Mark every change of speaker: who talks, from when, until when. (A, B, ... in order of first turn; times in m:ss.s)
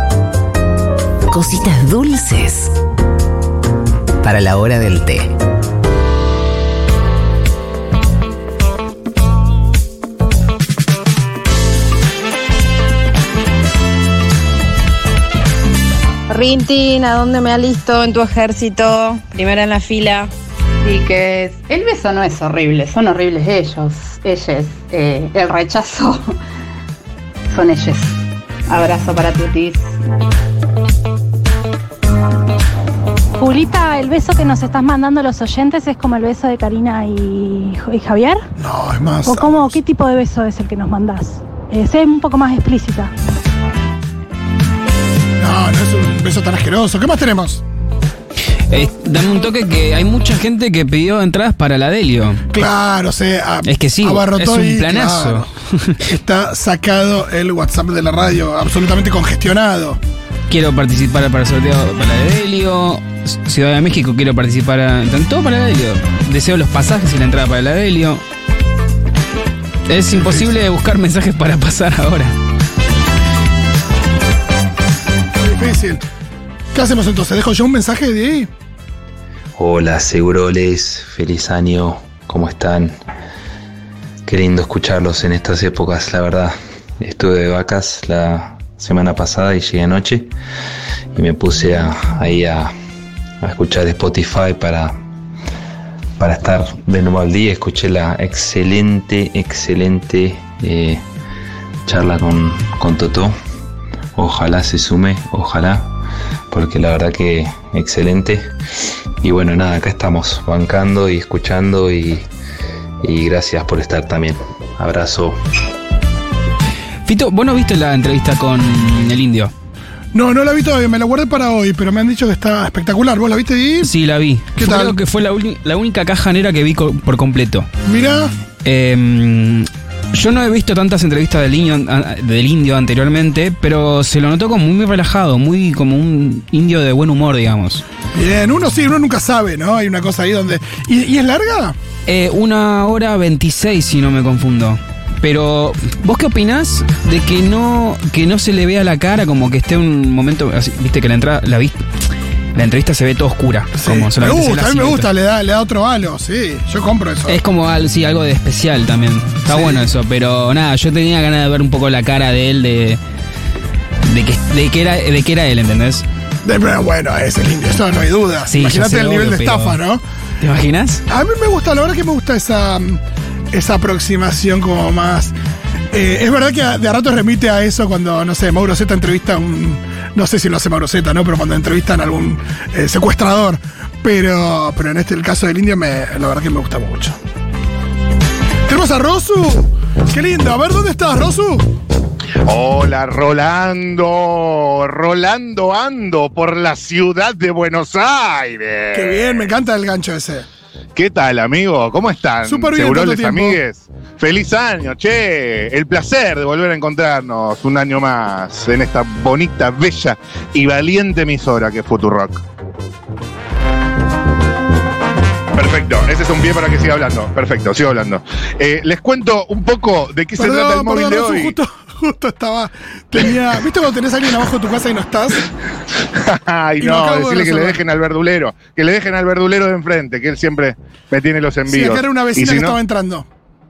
0:01.3-0:02.8 A
0:04.2-0:05.3 A
0:16.3-0:20.3 B
0:20.8-0:26.4 C
0:27.5-0:30.0 C
0:33.4-0:38.4 D
0:38.6-0:39.8 E
0:39.2-0:43.1 D
0:45.4-0:47.6 E
0:48.7-0:52.4 F
0:52.5-0:55.5 E
0:53.6-0:56.0 F
0:56.0-1:00.0 E
1:00.5-1:08.2 F
1:09.9-1:12.3 F
1:10.1-1:10.6 E
1:15.4-1:16.0 E
1:16.7-1:18.5 E
1:19.6-1:23.0 G
1:24.2-1:30.3 G
1:31.1-1:32.7 G
1:33.4-1:35.0 G
1:36.2-1:41.0 G
1:41.8-1:43.4 G
1:44.2-1:45.9 G
1:46.5-1:48.5 G
1:49.2-1:52.2 G
1:53.0-1:55.4 G
1:57.0-1:59.5 F
2:00.1-2:03.9 E
2:03.8-2:07.7 F
2:04.6-2:05.0 E
2:07.8-2:08.3 E
2:08.6-2:17.8 F
2:18.1-2:21.8 E
2:22.1-2:31.8 F
2:32.5-2:35.1 F
2:33.8-2:37.4 E
2:37.3-2:43.0 F
2:39.5-2:39.9 E
2:44.1-2:46.0 F
2:46.4-2:50.0 E
2:48.5-2:49.8 F
2:50.4-2:51.0 F
2:51.1-2:53.0 E
2:53.5-2:55.3 E
2:55.9-3:07.2 E
3:08.6-3:11.7 E
3:12.4-3:19.4 H
3:18.9-3:20.4 E
3:20.9-3:32.4 H
3:22.4-3:23.6 E
3:35.5-3:41.5 H
3:40.4-3:45.5 E
3:46.1-3:52.8 H
3:46.8-3:47.8 E
3:51.7-3:53.3 E